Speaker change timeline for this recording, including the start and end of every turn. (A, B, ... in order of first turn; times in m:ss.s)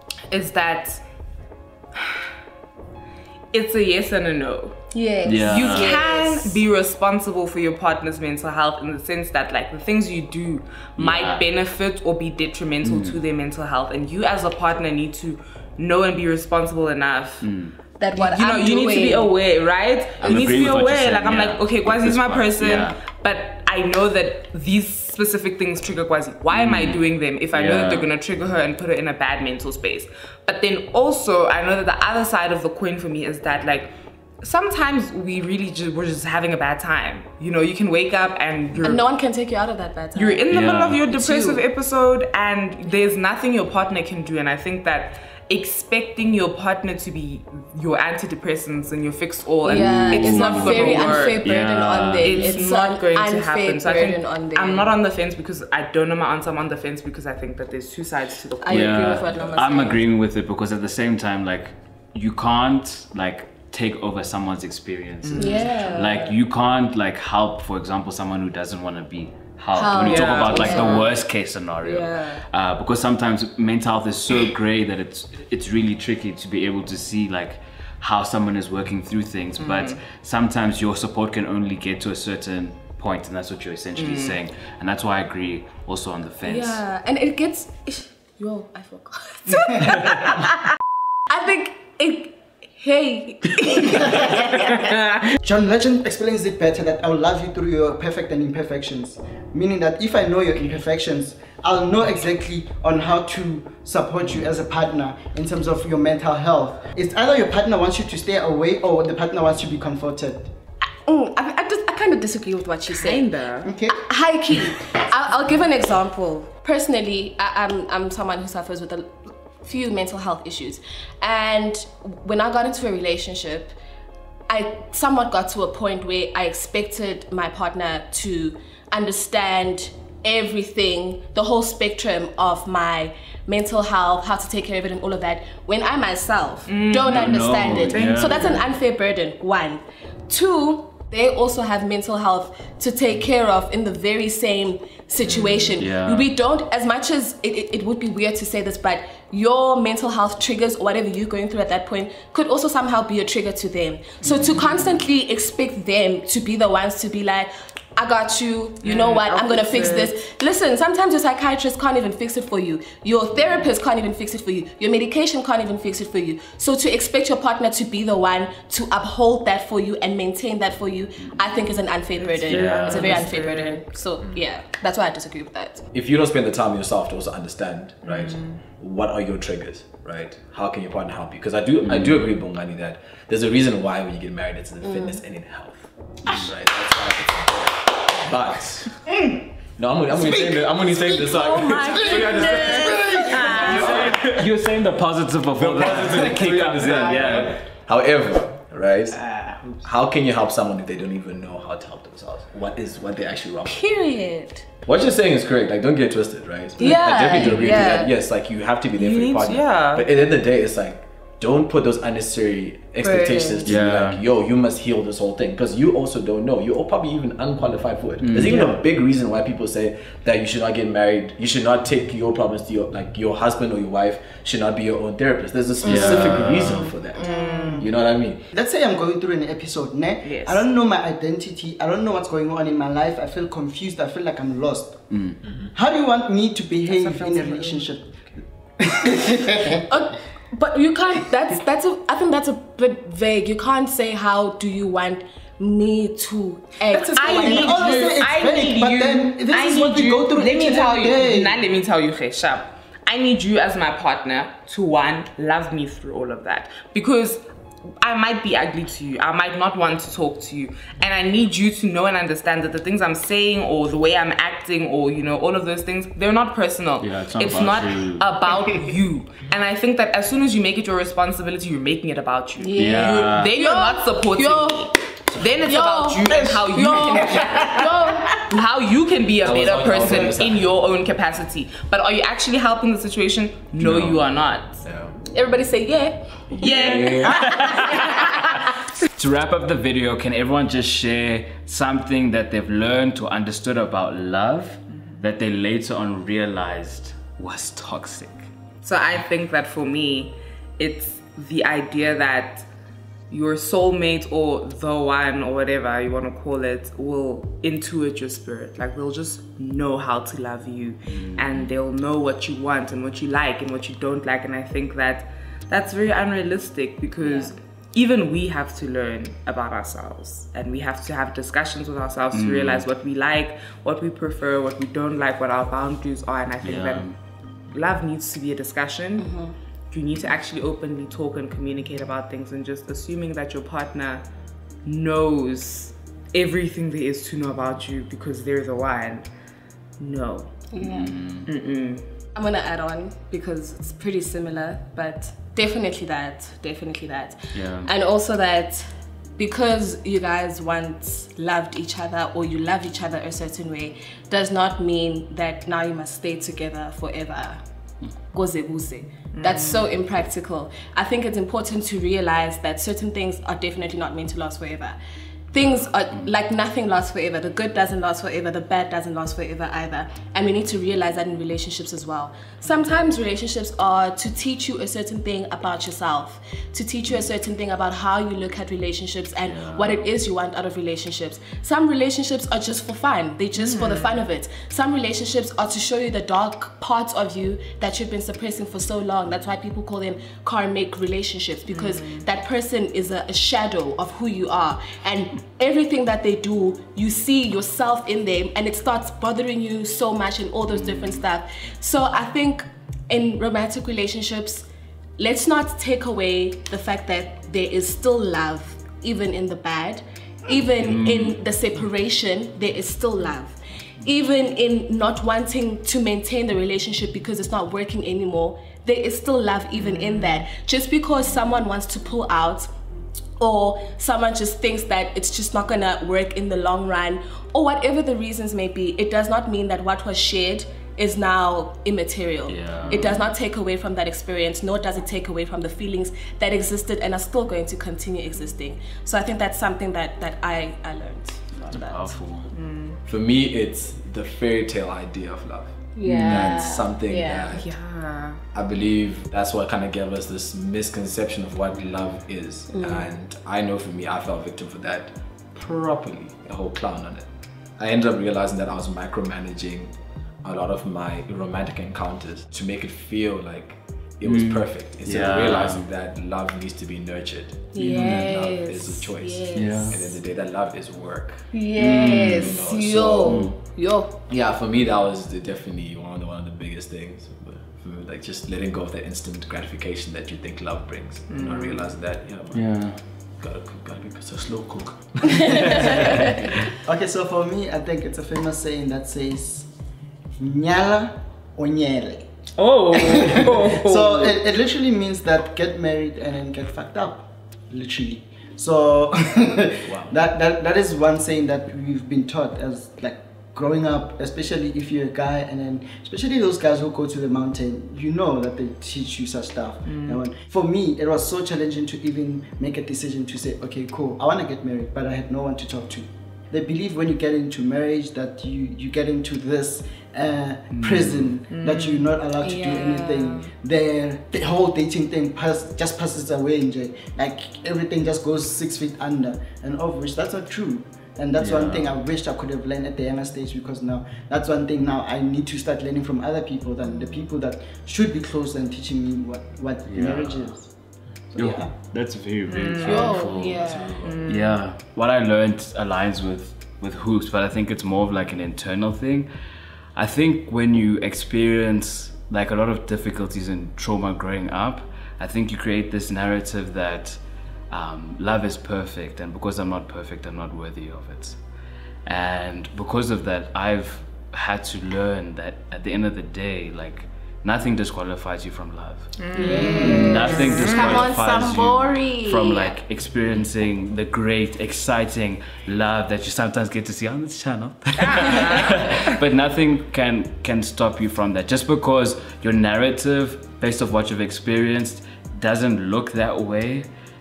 0:00.3-0:01.0 A
0:03.5-0:17.5 A
0:04.9-0:06.6 B
0:05.2-0:06.0 C
0:11.0-0:11.4 C
0:12.8-0:13.2 C
0:17.4-0:17.8 C
0:18.0-0:19.3 B
0:18.2-0:39.0 A
0:20.2-0:23.0 C
0:26.5-0:28.1 C
0:38.8-0:40.5 B
0:40.2-0:51.4 A
0:40.5-0:41.0 C
0:41.1-0:41.6 B
0:49.6-0:55.0 B
0:49.7-0:52.6 C
0:52.2-0:59.3 A
0:58.6-1:00.1 B
0:58.7-1:26.8 C
1:05.2-1:05.8 A
1:05.4-1:06.4 B
1:09.7-1:11.1 B
1:10.0-1:11.1 A
1:11.8-1:12.4 B
1:19.6-1:20.0 A
1:24.0-1:24.4 A
1:26.4-1:30.6 B
1:31.3-1:34.9 B
1:35.4-1:50.5 D
1:50.8-1:53.3 B
1:52.9-1:53.7 A
1:53.6-1:54.1 D
1:53.9-2:03.7 B
2:04.5-2:55.8 B
2:16.7-2:18.6 A
2:17.1-2:18.7 C
2:25.2-2:25.7 A
2:25.8-2:26.3 C
2:34.2-2:34.7 A
2:38.8-2:40.2 A
2:52.2-2:53.8 A
2:52.5-2:53.3 C
2:54.2-2:54.4 E
2:55.9-3:09.1 E
2:58.0-2:58.6 A
3:01.8-3:02.3 C
3:04.9-3:05.2 B
3:09.8-3:14.5 E
3:10.1-3:11.3 D
3:11.3-3:14.2 B
3:11.8-3:13.5 D
3:13.4-3:13.8 A
3:13.8-3:17.5 C
3:15.5-3:23.8 E
3:23.7-3:24.7 B
3:24.8-3:48.4 E
3:26.8-3:28.1 B
3:27.4-3:27.6 C
3:29.0-3:30.1 A
3:33.0-3:33.7 B
3:33.6-3:34.2 C
3:38.2-3:38.5 C
3:38.4-3:38.8 A
3:45.8-3:47.0 C
3:47.2-3:47.8 A
3:47.2-3:47.9 D
3:48.5-3:55.0 D
3:50.2-3:50.7 A
3:55.1-3:55.4 C
3:55.7-3:58.2 D
3:56.9-3:57.9 A
3:58.8-3:59.8 D
3:59.9-4:08.2 B
4:06.9-4:11.6 D
4:07.0-4:17.4 A
4:18.0-4:44.8 A
4:27.0-4:28.3 C
4:32.6-4:34.9 B
4:32.8-4:33.5 C
4:35.6-4:38.4 B
4:39.4-4:40.7 E
4:40.0-4:40.3 B
4:43.8-4:44.2 C
4:44.8-4:45.2 E
4:45.3-4:48.7 B
4:46.5-4:47.3 E
4:46.6-4:48.2 A
4:47.0-4:47.9 C
4:49.1-4:58.4 C
4:58.8-5:02.7 A
5:03.3-5:27.1 A
5:11.1-5:11.7 C
5:17.2-5:17.5 B
5:22.3-5:22.9 C
5:26.6-5:27.2 C
5:27.7-5:29.3 A
5:29.2-5:29.5 B
5:29.9-5:34.2 A
5:34.8-5:39.3 A
5:40.0-5:40.7 A
5:40.7-5:41.2 B
5:40.8-5:41.5 C
5:41.4-5:42.1 A
5:42.4-5:48.8 B
5:47.5-5:47.9 C
5:49.4-5:57.6 B
5:58.3-6:05.0 B
5:59.3-5:59.9 A
6:05.5-6:44.7 B
6:19.5-6:20.0 C
6:23.6-6:24.2 A
6:31.7-6:32.3 A
6:40.7-6:41.2 C
6:45.2-7:02.7 B
6:50.8-6:51.4 C
7:03.4-7:22.2 B
7:12.5-7:13.3 C
7:21.7-7:22.5 C
7:22.5-7:23.0 A
7:23.1-7:27.7 E
7:26.0-7:27.5 B
7:26.1-7:26.5 C
7:27.5-7:28.4 A
7:28.5-7:39.9 E
7:32.7-7:33.1 B
7:40.4-7:53.6 E
7:44.2-7:45.9 C
7:47.7-7:50.1 B
7:49.5-7:50.0 C
7:51.5-7:54.2 B
7:51.7-7:52.6 C
7:53.2-7:53.6 C
7:54.3-8:06.4 E
8:01.3-8:01.9 A
8:02.5-8:03.0 C
8:05.3-8:06.1 C
8:06.8-8:09.7 D
8:10.4-8:12.3 D
8:12.6-8:14.4 A
8:13.0-9:00.7 D
8:19.8-8:20.1 E
8:29.9-8:30.2 A
8:40.7-8:41.4 C
8:41.5-8:42.1 A
8:42.4-8:43.5 B
8:51.4-8:52.0 C
8:59.9-9:00.6 C
9:01.3-9:01.7 D
9:01.4-9:09.3 C
9:02.5-9:03.2 A
9:02.8-9:04.0 B
9:03.6-9:04.2 E
9:04.0-9:04.6 A
9:10.0-9:17.2 C
9:17.7-9:21.4 C
9:22.1-9:46.9 C
9:29.2-9:31.0 A
9:29.4-9:32.8 B
9:38.1-9:38.8 A